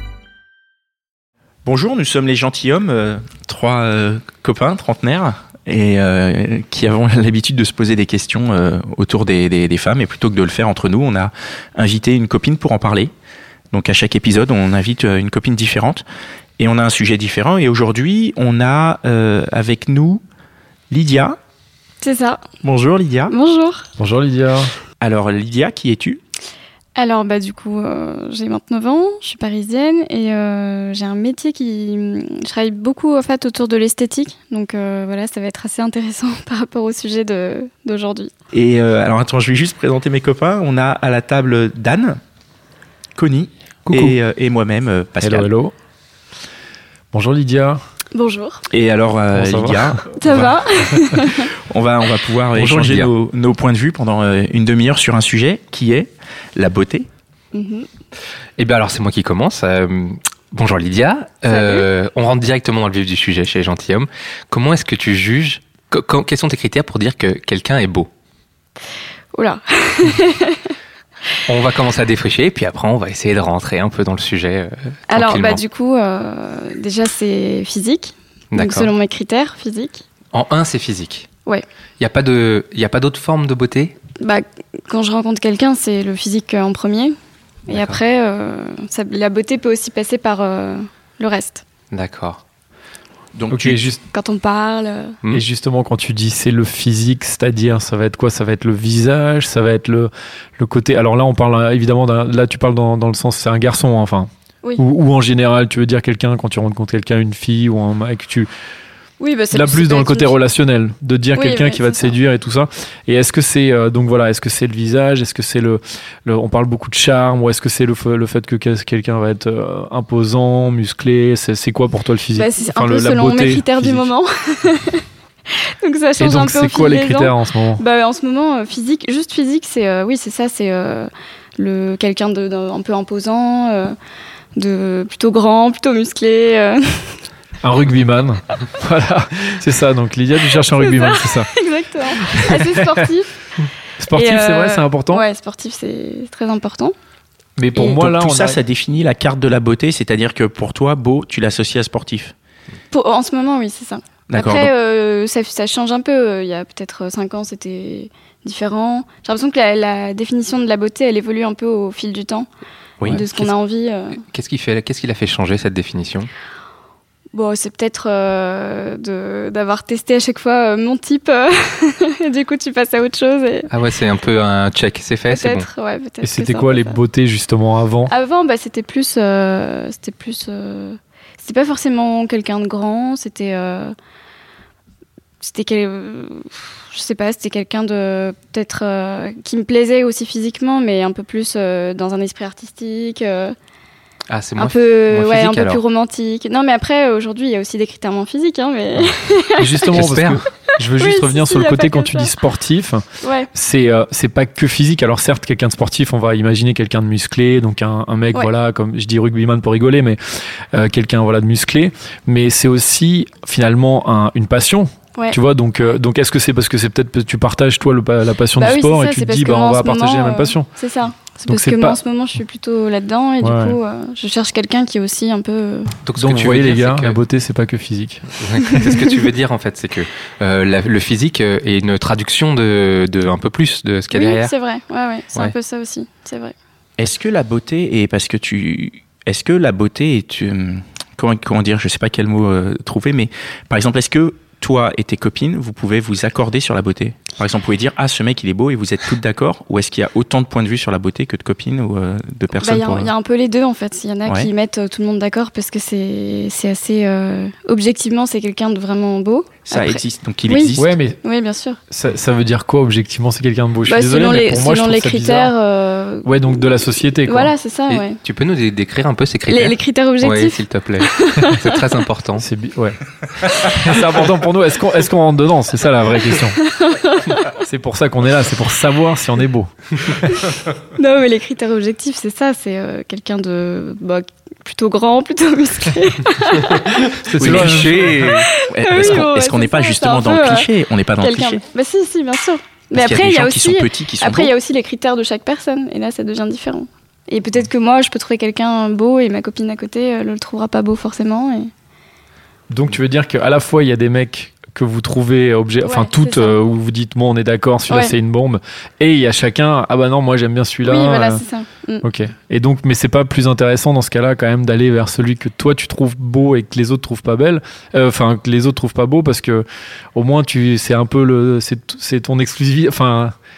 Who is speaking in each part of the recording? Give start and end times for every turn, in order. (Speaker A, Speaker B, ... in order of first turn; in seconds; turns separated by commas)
Speaker A: 1.6-13.1, Speaker A: 13.7-16.1, Speaker A: 16.6-20.2, Speaker A: 20.9-21.4, Speaker B: 22.0-22.4, Speaker A: 22.6-23.3, Speaker B: 23.3-23.9, Speaker C: 24.0-24.7, Speaker A: 25.0-26.2, Speaker B: 27.0-38.3, Speaker A: 38.5-42.2, Speaker A: 43.2-45.5, Speaker C: 43.9-44.2, Speaker C: 45.2-45.7, Speaker C: 47.1-47.8, Speaker B: 48.1-48.6, Speaker A: 48.7-50.5, Speaker C: 49.3-50.1, Speaker B: 50.2-51.5, Speaker A: 51.6-57.1, Speaker C: 52.6-53.1, Speaker B: 57.5-57.9, Speaker D: 58.6-68.1, Speaker B: 61.5-61.9, Speaker B: 69.3-70.7, Speaker D: 71.5-75.6, Speaker B: 75.1-80.0, Speaker D: 78.5-78.9, Speaker D: 80.3-81.3, Speaker D: 82.0-84.0, Speaker B: 84.2-87.2, Speaker B: 87.7-91.6, Speaker D: 91.9-92.4, Speaker A: 93.3-93.8, Speaker C: 93.5-94.0, Speaker B: 94.1-95.2, Speaker C: 95.3-108.5, Speaker B: 109.2-110.4, Speaker C: 109.5-124.1, Speaker B: 111.4-112.1, Speaker B: 122.4-133.9, Speaker C: 126.2-127.8, Speaker B: 134.6-137.2, Speaker C: 137.6-141.5, Speaker B: 140.8-143.3, Speaker C: 142.1-143.1, Speaker C: 144.0-145.2, Speaker B: 144.2-146.9, Speaker C: 147.6-148.6, Speaker A: 147.8-152.3, Speaker B: 152.9-162.5, Speaker A: 154.3-154.7, Speaker D: 163.0-163.5, Speaker B: 163.1-164.2, Speaker D: 164.2-166.3, Speaker B: 167.3-173.7, Speaker D: 173.7-175.7, Speaker B: 175.3-177.0, Speaker C: 176.2-178.1, Speaker B: 178.1-183.9, Speaker B: 185.4-193.6, Speaker D: 194.3-195.8, Speaker B: 194.6-199.9, Speaker C: 199.6-210.2, Speaker D: 199.9-200.4, Speaker B: 201.0-202.3, Speaker B: 203.2-203.5, Speaker C: 210.7-220.7, Speaker B: 218.6-225.9, Speaker C: 221.5-222.0, Speaker C: 223.4-223.8, Speaker D: 226.1-227.2, Speaker C: 226.2-228.3, Speaker D: 228.4-234.5, Speaker B: 234.1-236.6, Speaker A: 237.0-253.1, Speaker B: 252.6-261.8, Speaker A: 259.6-260.9, Speaker C: 260.8-261.2, Speaker C: 261.9-265.5, Speaker B: 263.9-266.6, Speaker C: 266.2-267.5, Speaker B: 267.2-268.2, Speaker D: 267.9-272.4, Speaker B: 269.5-271.8, Speaker C: 272.4-276.6, Speaker B: 276.6-277.6, Speaker C: 277.5-280.6, Speaker B: 280.9-287.1, Speaker C: 287.2-288.4, Speaker D: 287.4-288.4, Speaker A: 287.4-291.6, Speaker B: 288.6-301.7, Speaker A: 292.9-294.5, Speaker C: 302.7-311.4, Speaker B: 305.9-306.6, Speaker B: 310.8-312.1, Speaker C: 312.0-323.4